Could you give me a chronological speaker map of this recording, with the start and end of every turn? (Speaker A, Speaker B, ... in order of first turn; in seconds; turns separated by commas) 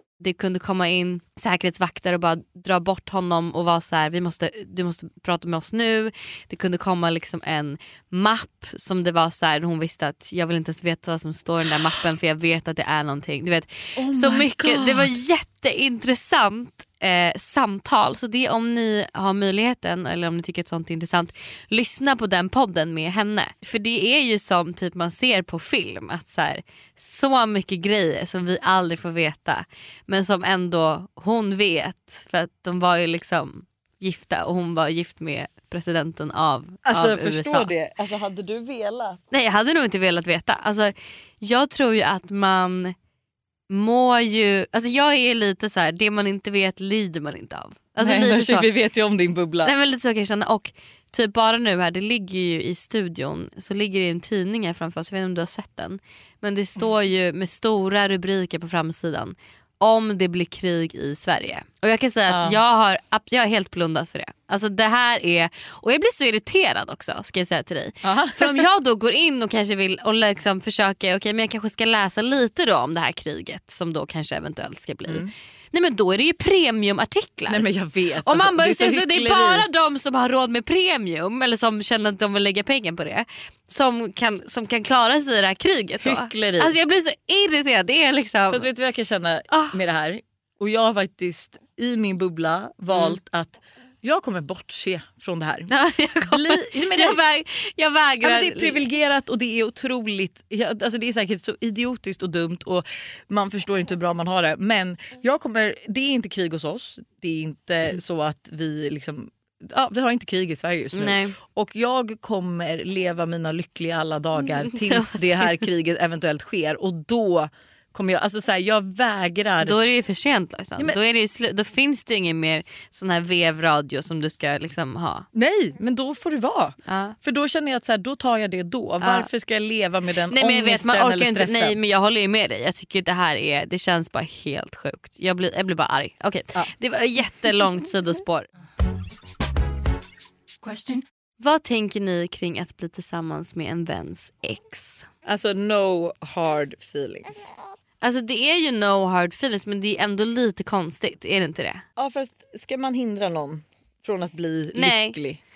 Speaker A: 0.2-37.7, Speaker B: 14.0-15.1, Speaker B: 36.9-39.2, Speaker A: 39.3-42.9, Speaker A: 43.7-48.7, Speaker B: 48.0-49.7, Speaker A: 49.6-77.6, Speaker B: 62.3-62.6, Speaker B: 68.0-68.6, Speaker B: 75.1-75.3, Speaker B: 77.5-79.7, Speaker A: 78.2-88.7, Speaker B: 86.0-86.7, Speaker B: 88.5-95.7, Speaker A: 89.5-89.8, Speaker A: 92.9-93.2, Speaker A: 95.7-98.8, Speaker B: 96.2-97.2, Speaker B: 98.2-119.7, Speaker A: 110.9-111.3, Speaker A: 114.7-115.5, Speaker A: 119.6-125.2, Speaker B: 125.3-131.8, Speaker A: 126.9-127.2, Speaker A: 129.0-129.3, Speaker A: 130.3-138.5, Speaker A: 141.4-145.1, Speaker B: 145.2-147.5, Speaker A: 148.0-151.8, Speaker B: 152.0-155.4, Speaker A: 154.8-155.2